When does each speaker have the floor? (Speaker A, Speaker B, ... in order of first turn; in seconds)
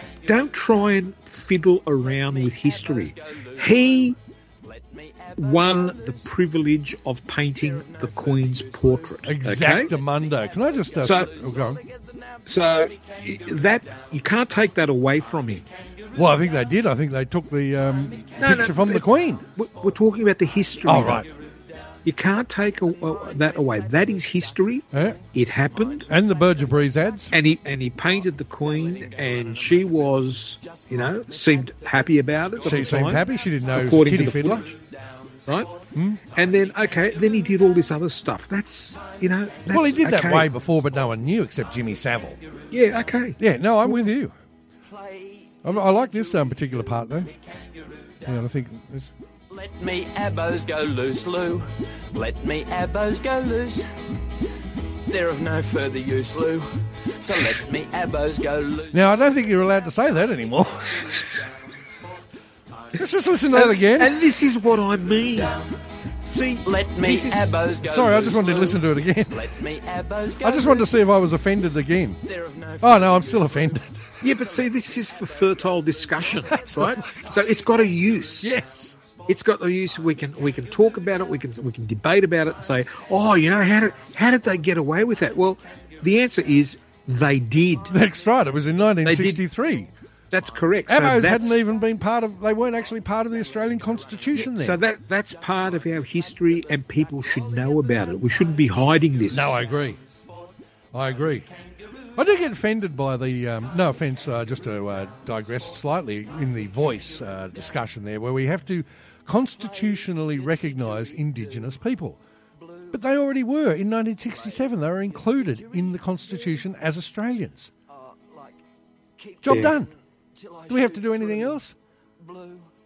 Speaker A: 0.3-4.2, 5.4-9.9, 11.0-11.3, 12.5-15.7, 18.4-21.3, 22.1-26.1, 27.3-34.7, 35.5-35.7, 36.3-40.5, 42.7-43.4, 63.5-65.6, 66.2-67.5, 74.2-78.6, 79.3-87.9, 89.0-89.4, 90.3-91.6, 94.3-99.6, 119.5-119.7
Speaker B: 2.3-3.9, 4.6-6.1, 7.7-9.0, 9.6-10.0, 10.9-12.9, 28.6-29.9, 30.6-31.7, 32.6-33.1, 44.9-45.5, 49.5-53.9, 55.1-59.0, 66.7-71.0, 72.2-73.4, 118.3-118.5, 119.2-119.8, 120.4-121.2, 122.2-122.7
Speaker C: 9.2-11.8, 16.2-19.5, 20.9-21.3, 24.9-25.2, 26.1-27.4, 32.6-34.7, 35.9-36.3, 39.7-42.4, 43.4-44.4, 45.6-47.3, 48.3-49.1, 58.9-61.2, 63.0-64.2, 67.8-69.5, 70.4-72.2, 72.8-74.0, 76.5-77.2, 78.4-79.0, 87.9-89.9, 90.9-94.8, 99.3-100.0, 100.9-101.5, 102.2-112.2, 112.9-117.7, 119.4-119.9, 120.7-121.7